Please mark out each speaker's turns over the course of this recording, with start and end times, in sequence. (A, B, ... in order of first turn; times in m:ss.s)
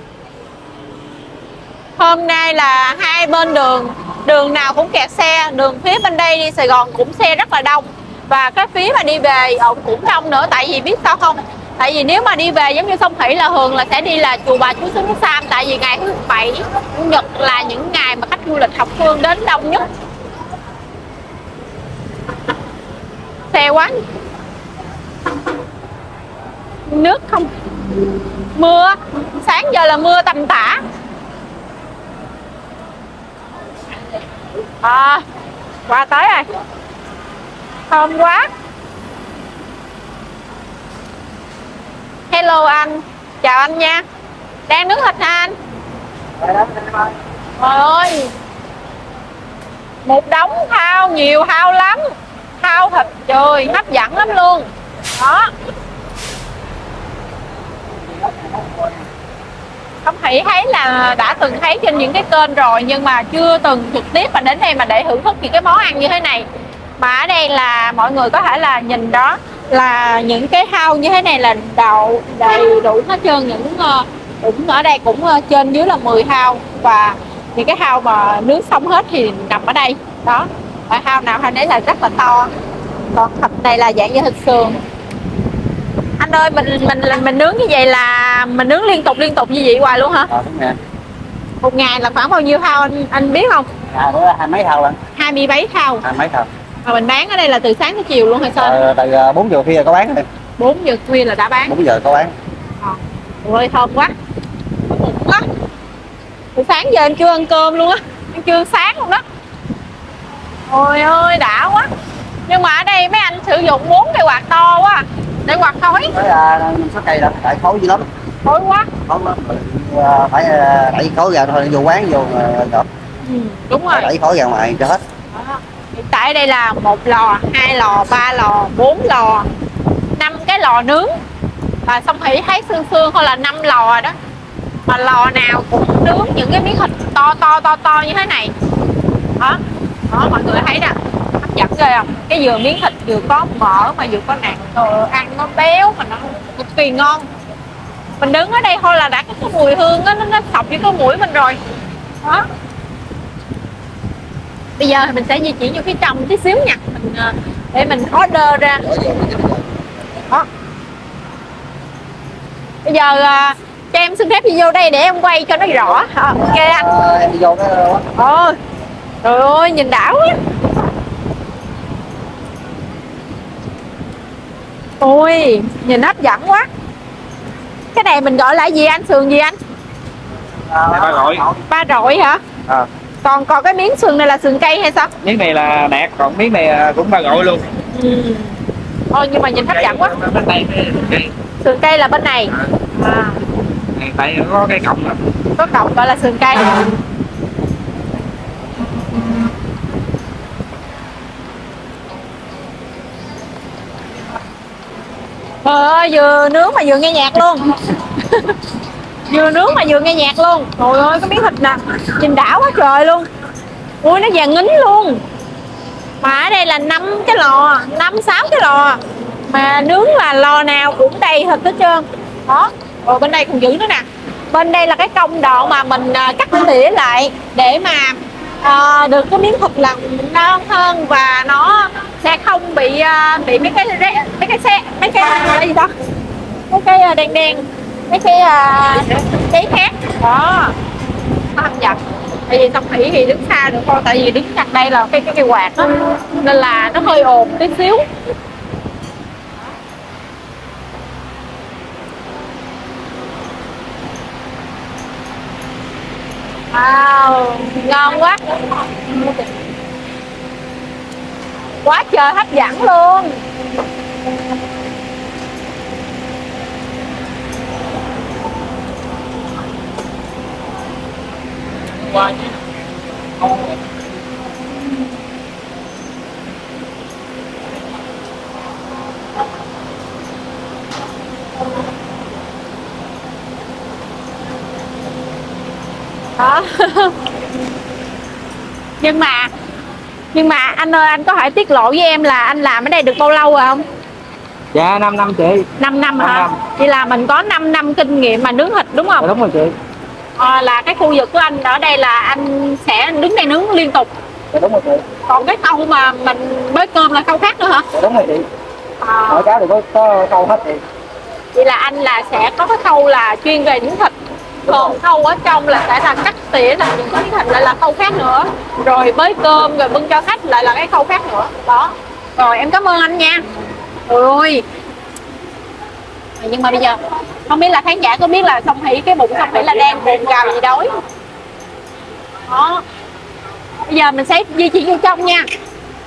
0:02.0-0:19.8 A
0:23.5-0:23.9 A
0:26.9-0:27.5 A
0:28.5-0:30.8 A
0:34.8-0:35.2 A
0:35.9-0:36.5 A
0:37.9-0:38.5 A
0:42.3-0:44.0 A
0:44.7-0:45.6 A
0:46.4-0:47.0 B
0:47.6-0:48.3 A
0:50.0-0:55.5 A
1:00.0-1:06.5 A
1:07.0-1:22.5 A
1:23.1-1:24.8 A
1:26.2-1:30.3 A
1:30.3-1:30.8 B
1:31.6-1:33.7 A
1:33.9-1:35.0 B
1:35.2-1:36.0 A
1:36.0-1:36.5 B
1:36.8-1:38.8 A
1:38.6-1:40.2 B
1:40.6-1:41.7 A
1:41.7-1:42.3 B
1:42.8-1:44.1 A
1:44.9-1:45.4 A
1:46.5-1:49.2 A
1:50.7-1:51.9 A
1:52.5-1:56.1 A
1:56.1-1:58.0 B
1:58.4-1:58.9 A
1:59.0-2:02.8 B
2:03.2-2:04.1 A
2:03.9-2:05.0 B
2:05.3-2:09.5 A
2:10.2-2:11.1 A
2:11.8-2:14.1 A
2:14.9-2:18.5 A
2:19.4-2:27.3 A
2:28.2-2:31.6 A
2:34.8-2:38.9 A
2:38.9-2:39.6 B
2:42.8-2:46.9 A
2:46.4-2:48.0 B
2:48.2-2:48.6 A
2:49.2-2:50.3 A
2:55.0-2:56.7 A
2:57.9-2:59.6 A
3:00.7-3:01.6 B
3:00.9-3:01.4 C
3:01.7-3:02.4 A
3:03.2-3:05.1 A
3:05.2-3:07.6 C
3:07.9-3:08.5 A
3:09.1-3:10.1 A
3:09.7-3:11.3 C
3:11.6-3:13.4 A
3:13.9-3:15.2 C
3:15.6-3:16.9 A
3:25.6-3:28.6 A
3:29.3-3:33.3 A
3:34.0-3:35.2 A
3:36.2-3:55.9 A
3:56.7-4:00.8 A
4:01.5-4:08.0 A
4:16.7-4:18.4 A
4:21.8-4:23.4 A
4:46.4-4:47.2 A
4:49.0-4:49.5 A
4:50.3-4:53.8 A
4:54.7-4:56.5 C
4:55.8-4:59.3 A
4:59.2-4:59.7 C
5:00.4-5:04.1 A
5:04.5-5:05.0 B
5:05.3-5:07.8 A
5:07.9-5:08.4 B
5:09.0-5:09.5 A
5:09.3-5:10.8 B
5:11.5-5:14.1 A
5:14.6-5:23.4 A
5:24.1-5:24.6 A
5:26.4-5:30.9 A
5:32.5-5:32.8 A
5:33.9-5:35.4 A